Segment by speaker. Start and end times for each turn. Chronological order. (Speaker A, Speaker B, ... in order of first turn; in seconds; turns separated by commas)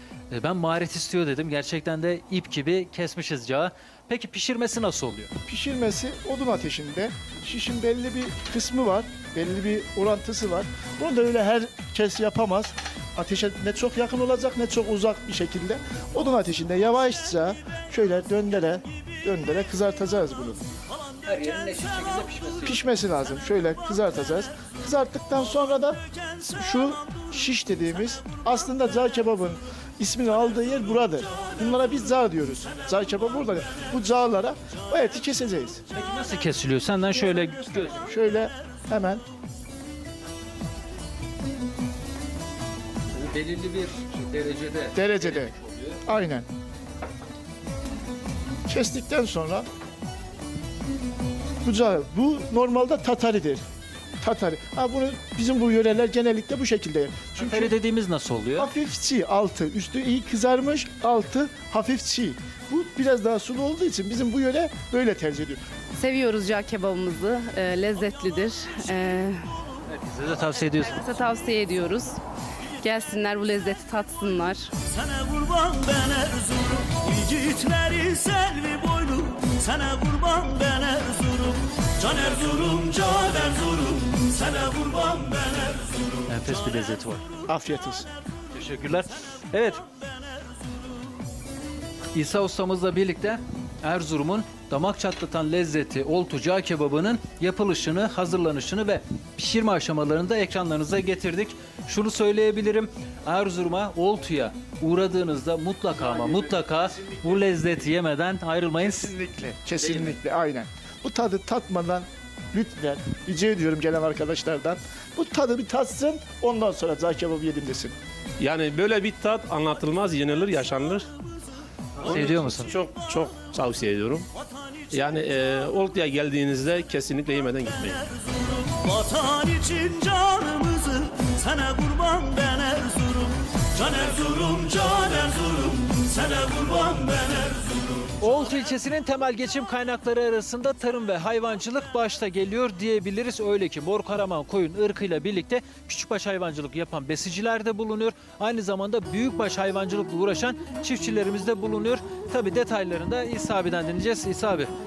Speaker A: 0.3-5.3, Speaker B: 5.5-20.6, Speaker A: 21.2-22.9, Speaker B: 22.6-35.8, Speaker A: 35.9-38.0, Speaker B: 37.4-39.2, Speaker A: 43.1-46.0, Speaker B: 44.9-45.5, Speaker B: 46.0-46.5, Speaker B: 48.7-49.7, Speaker B: 51.6-53.6, Speaker B: 54.2-57.8, Speaker A: 57.4-58.7, Speaker B: 58.6-65.6, Speaker C: 65.9-69.5, Speaker A: 69.9-71.1, Speaker C: 71.0-72.2, Speaker C: 72.8-74.7, Speaker D: 75.0-85.8, Speaker A: 86.3-87.3, Speaker B: 87.5-88.1, Speaker A: 88.5-89.8, Speaker A: 92.1-109.1, Speaker B: 108.8-117.9, Speaker E: 118.4-121.0, Speaker E: 122.0-124.2, Speaker A: 122.0-122.7, Speaker E: 124.9-128.1, Speaker D: 128.8-137.7, Speaker A: 138.2-154.7